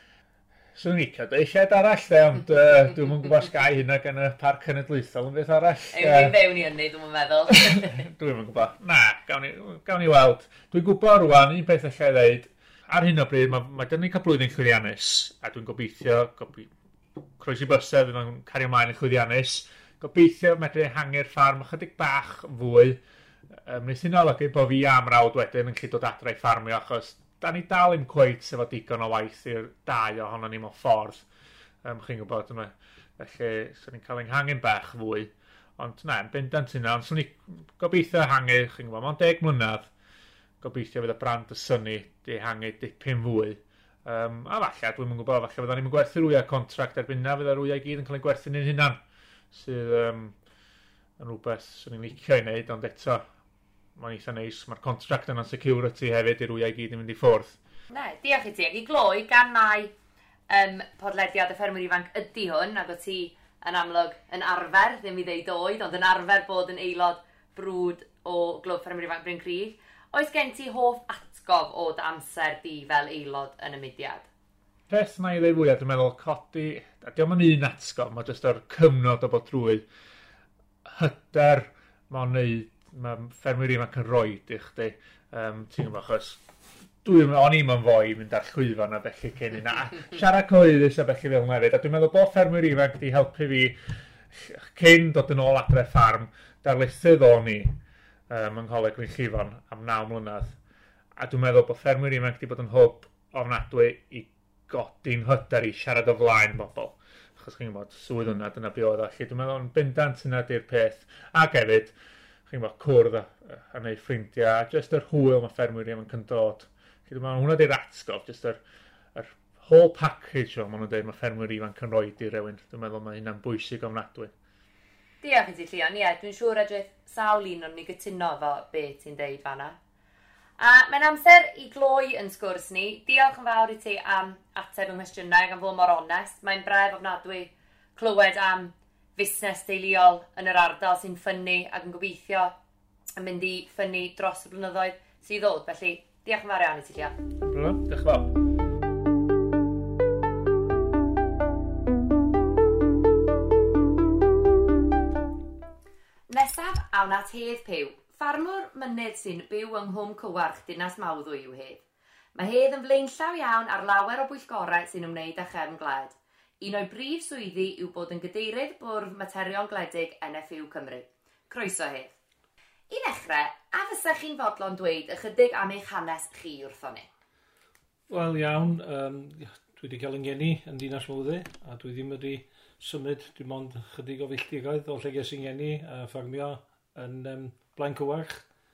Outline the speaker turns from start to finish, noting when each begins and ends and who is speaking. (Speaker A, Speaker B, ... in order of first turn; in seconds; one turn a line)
Speaker A: 0.8-6.4
Speaker B: 5.9-8.0
Speaker A: 7.5-16.7
Speaker A: 17.4-23.0
Speaker A: 23.6-31.2
Speaker A: 31.8-39.9
Speaker A: 40.6-49.0
Speaker A: 49.5-50.3
Speaker A: 51.2-53.2
Speaker A: 54.0-57.6
Speaker B: 57.9-59.9
Speaker B: 60.5-74.3
Speaker A: 74.9-79.8
Speaker A: 80.9-86.4
Speaker A: 87.0-93.8
Speaker A: 94.3-97.8
Speaker A: 98.3-100.5
Speaker A: 101.2-111.9
Speaker A: 112.5-118.6
Speaker A: 119.1-124.3
Speaker B: 125.2-129.8
Speaker B: 130.6-142.5
Speaker B: 143.2-147.2
Speaker A: 147.4-148.3
Speaker B: 156.3-161.8
Speaker B: 162.3-172.1
Speaker B: 172.9-177.1
Speaker C: 178.1-188.4